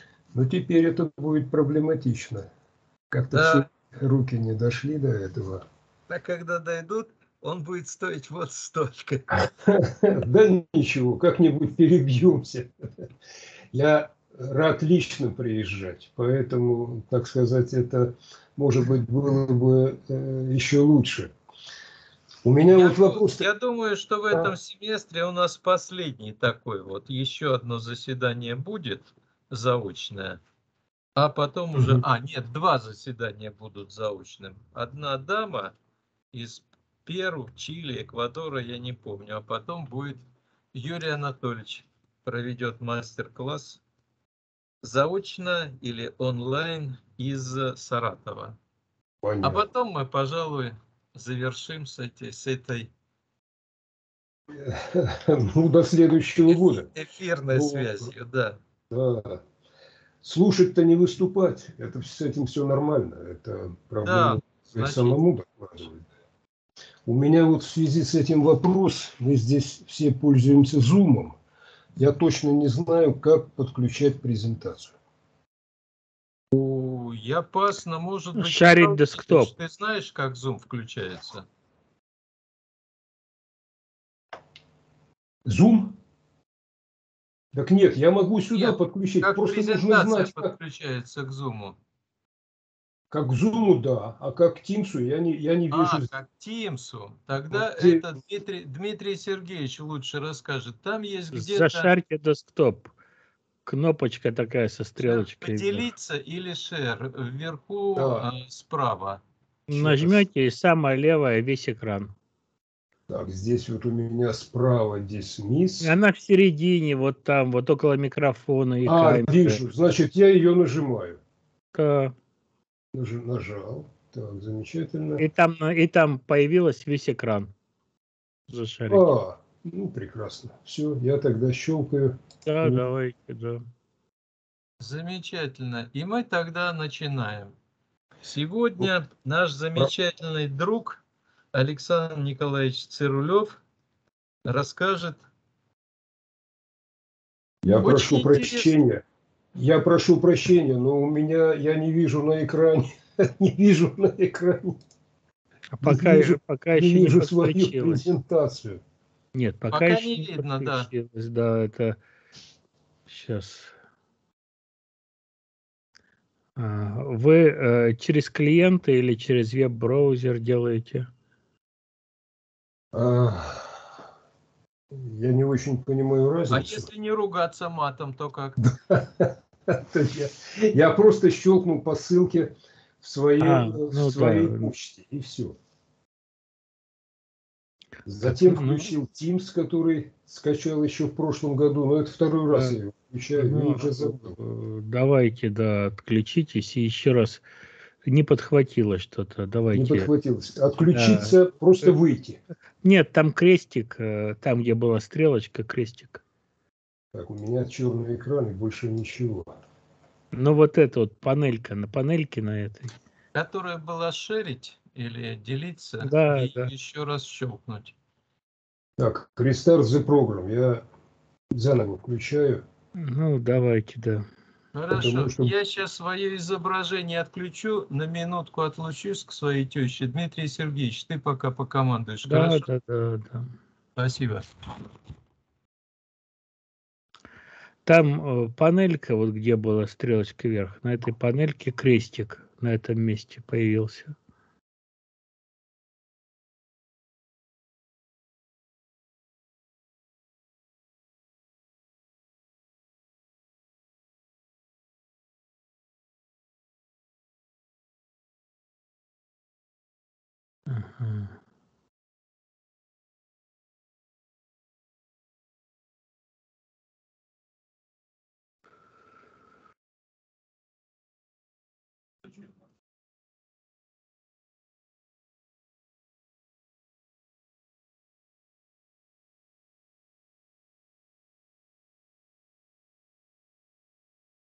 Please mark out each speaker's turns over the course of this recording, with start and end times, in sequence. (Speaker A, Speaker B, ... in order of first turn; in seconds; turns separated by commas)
Speaker A: 0.3-2.5, Speaker A: 3.1-5.7, Speaker B: 3.3-3.7, Speaker B: 6.1-9.3, Speaker A: 9.4-12.7, Speaker A: 13.7-21.3, Speaker A: 22.4-23.5, Speaker B: 22.7-30.4, Speaker B: 31.2-35.8, Speaker A: 31.8-32.0, Speaker B: 36.3-40.2, Speaker B: 40.7-43.8, Speaker B: 44.8-48.6, Speaker A: 49.2-49.6, Speaker B: 49.4-52.9, Speaker A: 54.5-56.9, Speaker B: 56.5-58.6, Speaker A: 57.5-58.1, Speaker A: 58.9-59.4, Speaker A: 60.2-66.1, Speaker B: 64.0-65.2, Speaker A: 67.1-71.4, Speaker A: 72.0-75.0, Speaker B: 76.5-81.5, Speaker C: 78.3-79.5, Speaker A: 85.5-86.0, Speaker A: 87.5-90.5, Speaker B: 88.5-91.8, Speaker A: 93.1-96.1, Speaker B: 95.7-101.9, Speaker A: 97.5-98.0, Speaker C: 101.3-102.9, Speaker C: 103.7-105.9, Speaker B: 105.0-109.2, Speaker A: 108.0-108.3, Speaker C: 109.7-112.1, Speaker A: 109.7-110.2, Speaker A: 113.1-115.9, Speaker C: 115.8-119.6, Speaker A: 118.8-121.2, Speaker C: 121.7-122.1, Speaker A: 122.9-125.2, Speaker C: 125.2-127.5, Speaker C: 128.5-129.1, Speaker A: 128.9-132.8, Speaker C: 132.4-133.7, Speaker B: 134.8-137.5, Speaker B: 138.2-141.0, Speaker B: 141.5-143.6, Speaker B: 144.4-145.2, Speaker A: 147.6-149.0, Speaker B: 147.8-148.7, Speaker A: 149.6-154.8, Speaker C: 155.8-158.1, Speaker A: 155.8-158.8, Speaker C: 159.3-162.0, Speaker B: 159.7-160.9, Speaker C: 163.1-163.7, Speaker C: 166.6-171.1, Speaker A: 172.9-173.8, Speaker A: 174.9-176.9, Speaker B: 176.5-178.6, Speaker A: 178.6-185.6, Speaker C: 183.4-184.7, Speaker A: 188.1-194.4, Speaker C: 188.2-188.9, Speaker C: 193.4-197.4, Speaker C: 198.1-200.1, Speaker A: 199.7-202.4, Speaker C: 200.9-201.3, Speaker C: 202.8-206.2, Speaker A: 207.1-209.5, Speaker C: 210.3-213.0, Speaker B: 213.3-217.9, Speaker C: 216.0-216.7, Speaker A: 219.0-220.8, Speaker A: 221.5-222.6, Speaker C: 223.0-224.2, Speaker B: 224.7-232.7, Speaker A: 224.9-225.5, Speaker C: 232.3-233.5, Speaker B: 234.0-234.5, Speaker C: 237.8-244.2, Speaker C: 260.7-261.4